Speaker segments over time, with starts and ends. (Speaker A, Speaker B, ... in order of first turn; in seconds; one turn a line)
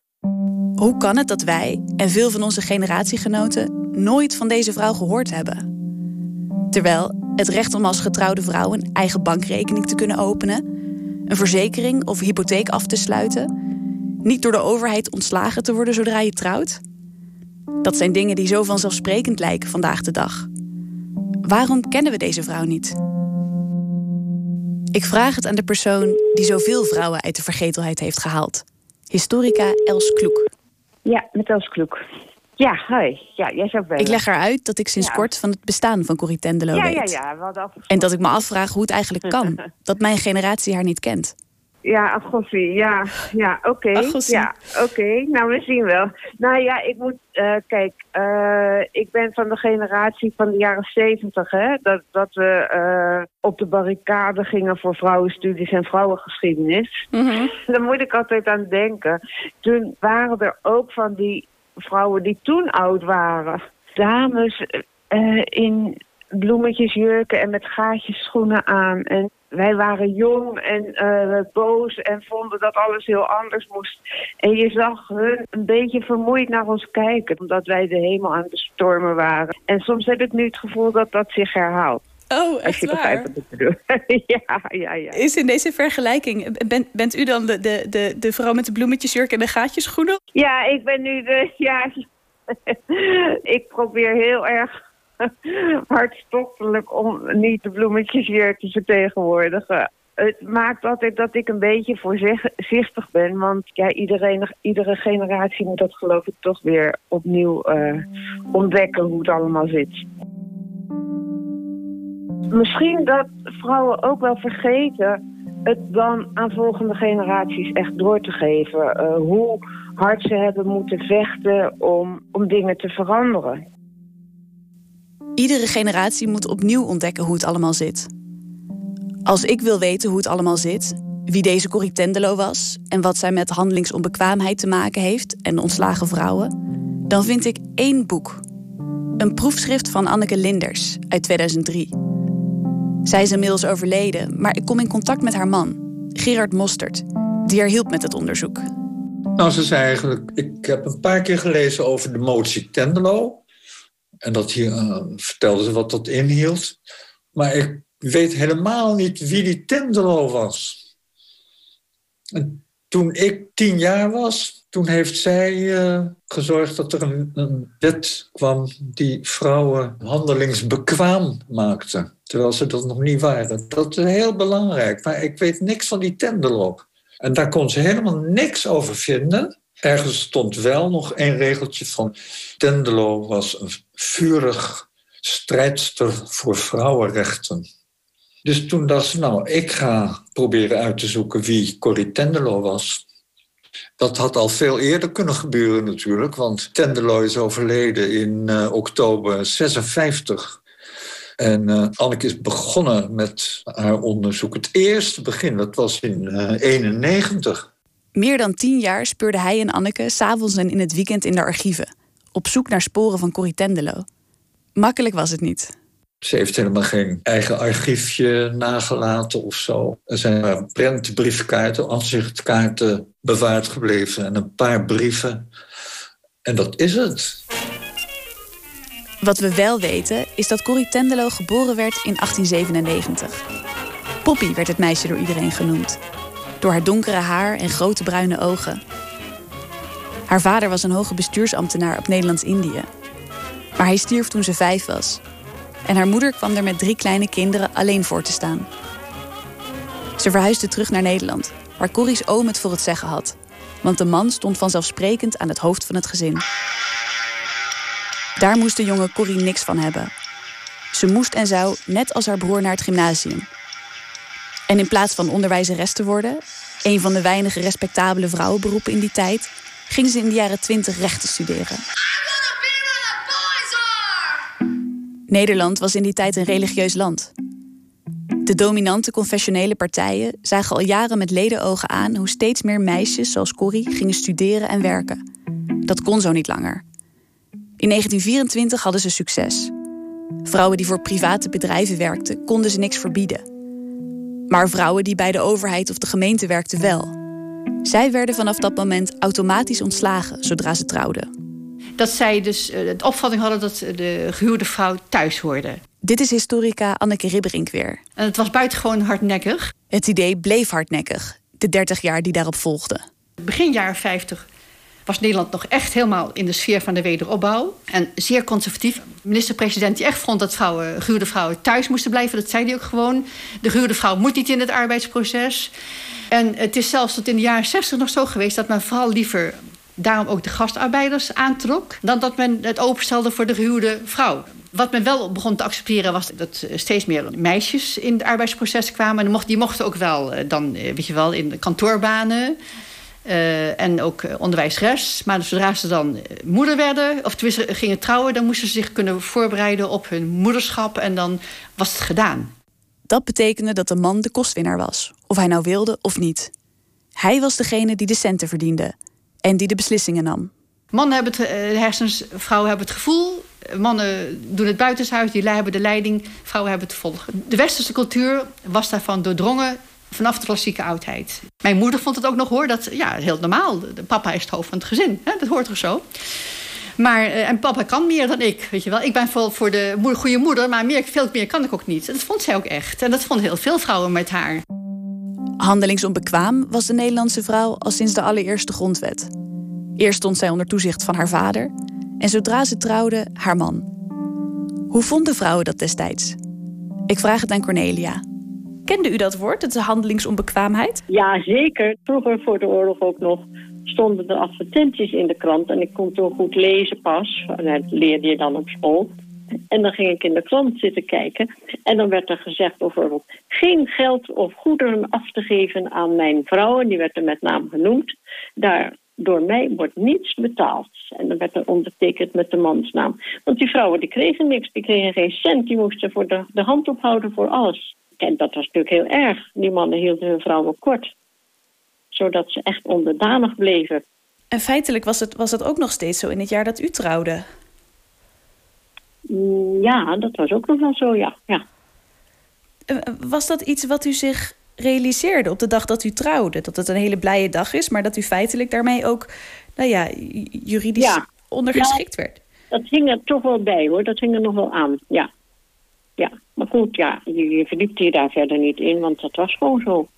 Speaker A: 0.8-5.7
Speaker A: 6.7-10.6
Speaker A: 11.3-13.5
Speaker A: 14.2-16.8
Speaker A: 17.8-20.5
Speaker A: 21.4-23.0
Speaker A: 24.9-30.5
Speaker B: 31.1-32.0
Speaker B: 32.6-34.2
Speaker A: 34.0-37.1
Speaker B: 35.0-35.3
Speaker B: 36.7-38.2
Speaker A: 37.9-41.3
Speaker B: 41.9-57.0
Speaker A: 44.0-44.5
Speaker B: 57.7-82.0
Speaker A: 82.3-83.3
Speaker B: 82.7-85.2
Speaker A: 85.1-90.2
Speaker B: 90.3-94.7
Speaker B: 95.2-110.0
Speaker B: 112.5-123.6
Speaker A: 125.4-128.1
Speaker A: 129.3-136.5
Speaker A: 137.1-138.4
Speaker A: 139.2-141.9
Speaker A: 143.1-148.7
Speaker C: 149.4-153.4
Speaker C: 154.2-156.8
Speaker C: 157.3-160.8
Speaker C: 162.3-187.7
Speaker C: 188.4-193.0
Speaker C: 194.0-200.6
Speaker C: 201.4-207.7
Speaker A: 208.2-214.1
Speaker A: 214.8-215.7
Speaker C: 216.2-225.5
Speaker C: 226.4-227.4
Speaker A: 229.2-233.4
Speaker A: 234.2-236.0
Speaker A: 236.6-238.8
Speaker A: 240.3-242.9
Speaker A: 243.8-245.2
Speaker A: 245.9-248.7
Speaker A: 250.2-256.4
Speaker A: 258.4-260.1
Speaker A: 260.9-263.5
Speaker A: 264.7-271.8
Speaker A: 275.3-277.3
Speaker A: 278.4-285.2
Speaker A: 285.9-286.8
Speaker A: 287.8-289.7
Speaker A: 290.4-293.4
Speaker A: 294.5-297.1
Speaker A: 297.9-301.3
Speaker D: 302.0-305.8
Speaker A: 306.0-308.0
Speaker D: 308.2-309.7
Speaker A: 309.9-313.0
Speaker D: 313.4-314.4
Speaker D: 315.1-325.7
Speaker D: 326.3-342.6
Speaker D: 343.2-352.5
Speaker A: 353.1-356.5
Speaker A: 357.2-360.5
Speaker D: 360.9-376.0
Speaker D: 377.0-384.6
Speaker A: 385.6-389.3
Speaker A: 390.0-393.9
Speaker A: 394.9-396.4
Speaker A: 397.1-398.2
Speaker A: 398.9-401.0
Speaker E: 401.1-409.2
Speaker E: 409.7-431.1
Speaker E: 432.1-434.0
Speaker A: 434.5-437.4
Speaker E: 439.3-441.6
Speaker A: 442.9-452.4
Speaker E: 451.0-452.0
Speaker E: 452.7-455.3
Speaker E: 456.2-460.1